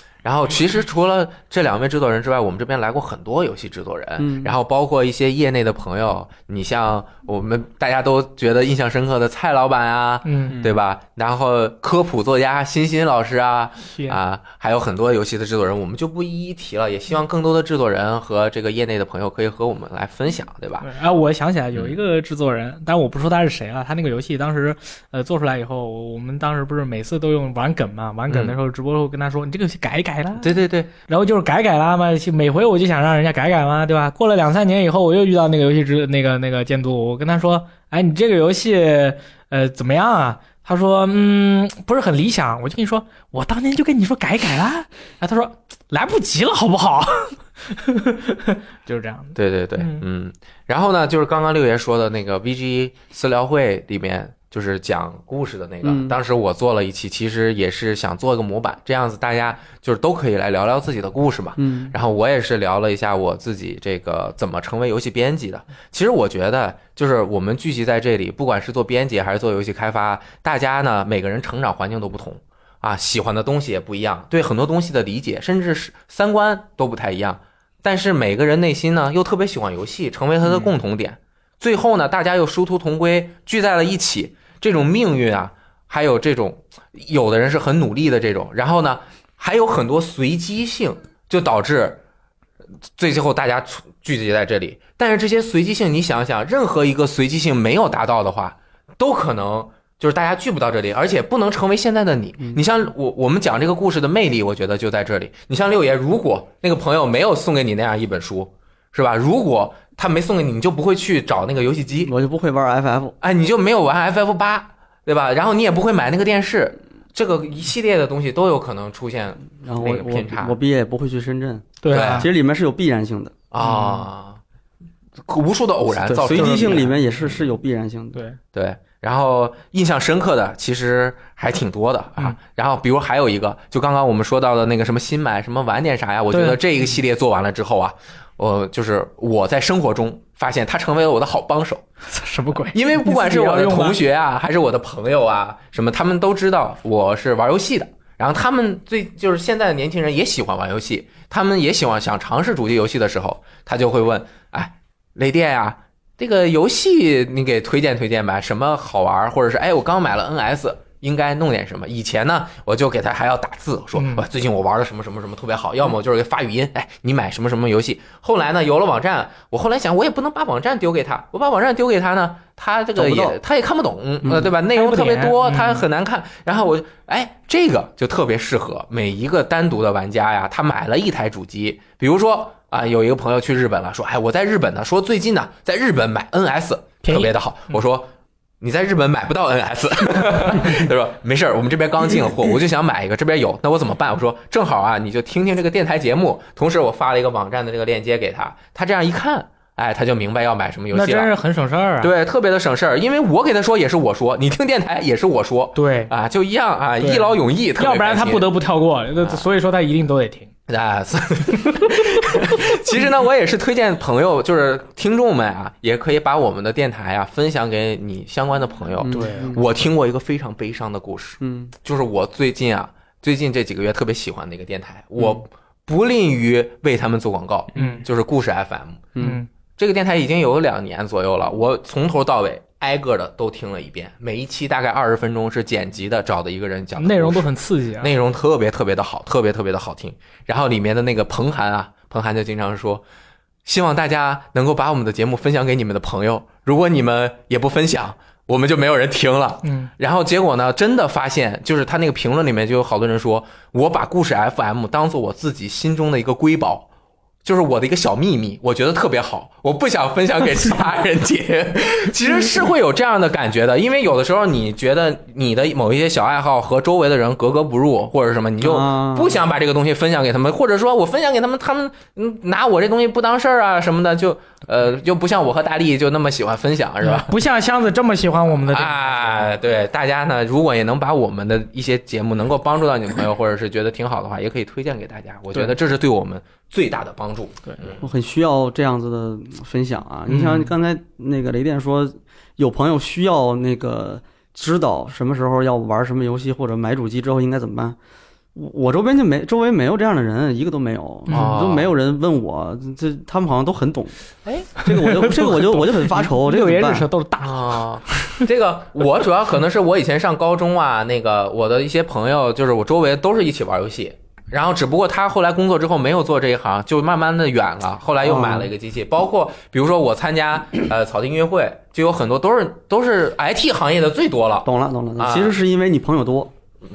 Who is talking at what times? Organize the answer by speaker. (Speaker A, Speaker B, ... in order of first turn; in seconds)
Speaker A: 0.2-20.9, 28.3-28.6, 30.4-30.9, 49.4-92.0, 93.0-112.1, 113.2-120.5, 121.9-122.3, 123.5-124.4, 125.2-127.0, 128.5-141.8, 142.7-188.1, 188.6-201.3, 202.0-208.5, 209.2-209.4, 210.7-229.2, 229.8-243.0, 243.7-256.9, 257.4-277.3, 278.7-288.0, 301.3-301.9, 307.4-325.6
Speaker B: 4.2-4.5, 55.8-56.2, 61.6-62.0, 112.0-113.2, 119.6-123.3, 126.1-128.2, 173.0-173.4, 174.2-174.5, 219.0-219.6, 221.4-221.7, 268.6-269.4, 288.0-298.0, 298.6-304.2, 304.8-307.1, 318.2-318.7, 324.6-326.5
Speaker C: 10.2-10.6, 13.9-14.2, 20.8-50.0, 121.8-122.3, 123.6-124.0, 126.3-126.9, 136.3-136.6, 142.1-144.0, 163.9-164.3, 174.7-175.9, 187.0-187.3, 200.9-202.1, 205.8-206.1, 207.0-210.5, 211.7-212.4, 219.1-219.5, 227.8-228.1, 229.2-229.5, 237.0-238.1, 249.6-249.9, 277.0-279.5, 290.3-290.7, 304.5-308.4